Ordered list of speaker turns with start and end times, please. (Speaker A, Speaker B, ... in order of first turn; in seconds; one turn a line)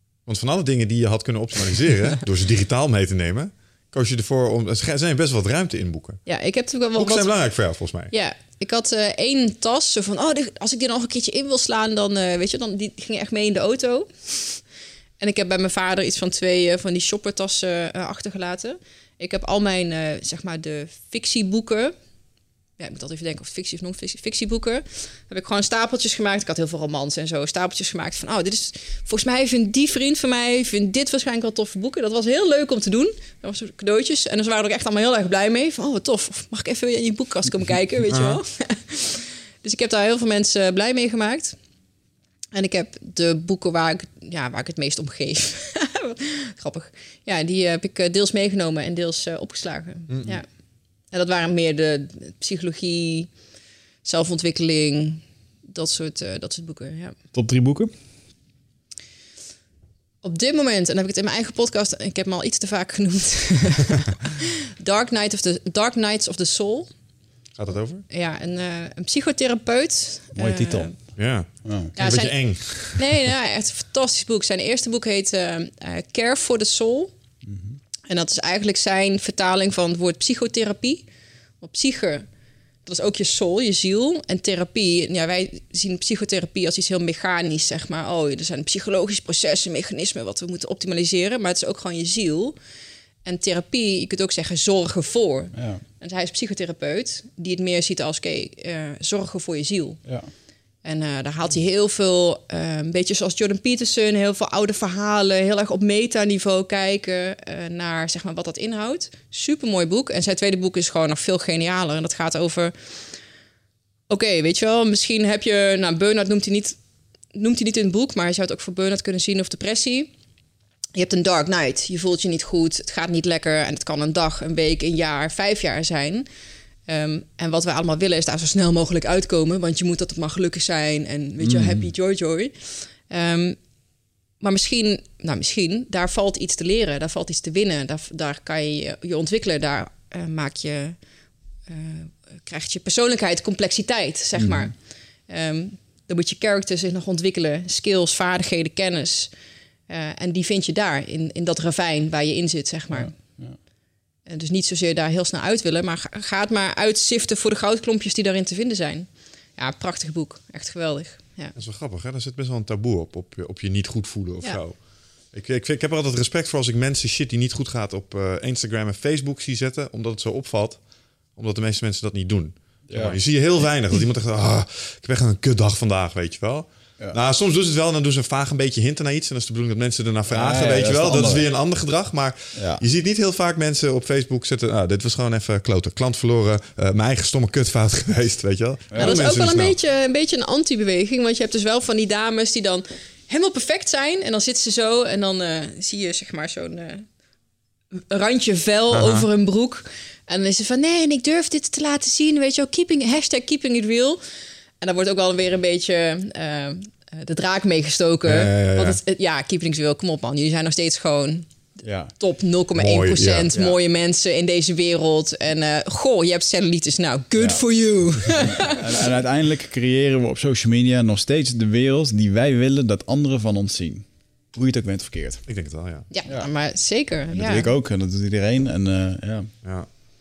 Speaker A: 0.2-6.2
Speaker B: 6.2-7.3
Speaker A: 7.0-8.1
Speaker B: 8.1-14.6
Speaker B: 15.2-21.9
Speaker B: 22.8-41.5
Speaker A: 38.1-38.4
Speaker B: 42.5-50.4
Speaker A: 50.1-50.3
Speaker B: 51.1-53.3
Speaker B: 54.0-57.1
Speaker C: 57.3-57.9
Speaker B: 60.2-66.9
Speaker A: 67.6-68.0
Speaker B: 68.1-70.9
Speaker C: 70.3-71.9
Speaker A: 71.2-73.3
Speaker B: 72.0-77.1
Speaker C: 77.4-77.8
Speaker B: 78.1-81.0
Speaker B: 81.6-82.3
Speaker B: 82.8-92.5
Speaker B: 93.2-100.2
Speaker C: 95.5-95.8
Speaker C: 100.0-100.3
Speaker B: 100.8-112.7
Speaker B: 114.1-116.8
Speaker B: 117.3-120.1
Speaker B: 120.9-126.3
Speaker B: 126.9-133.6
Speaker C: 131.4-131.9
Speaker B: 134.4-141.0
Speaker B: 141.7-149.3
Speaker C: 144.3-144.7
Speaker B: 149.9-153.2
Speaker C: 152.9-153.6
Speaker B: 154.2-161.5
Speaker A: 161.5-170.8
Speaker A: 171.3-189.8
Speaker C: 172.9-173.2
Speaker C: 180.3-181.5
Speaker C: 182.5-182.8
Speaker C: 188.9-189.2
Speaker B: 189.0-197.1
Speaker B: 197.9-204.2
Speaker A: 198.9-199.3
Speaker B: 204.8-211.5
Speaker A: 208.2-209.0
Speaker C: 211.8-212.1
Speaker B: 212.2-219.0
Speaker A: 212.8-213.5
Speaker C: 213.5-213.8
Speaker C: 217.3-217.6
Speaker C: 218.2-225.4
Speaker A: 225.5-226.1
Speaker B: 226.1-227.7
Speaker C: 227.3-229.5
Speaker A: 229.6-229.9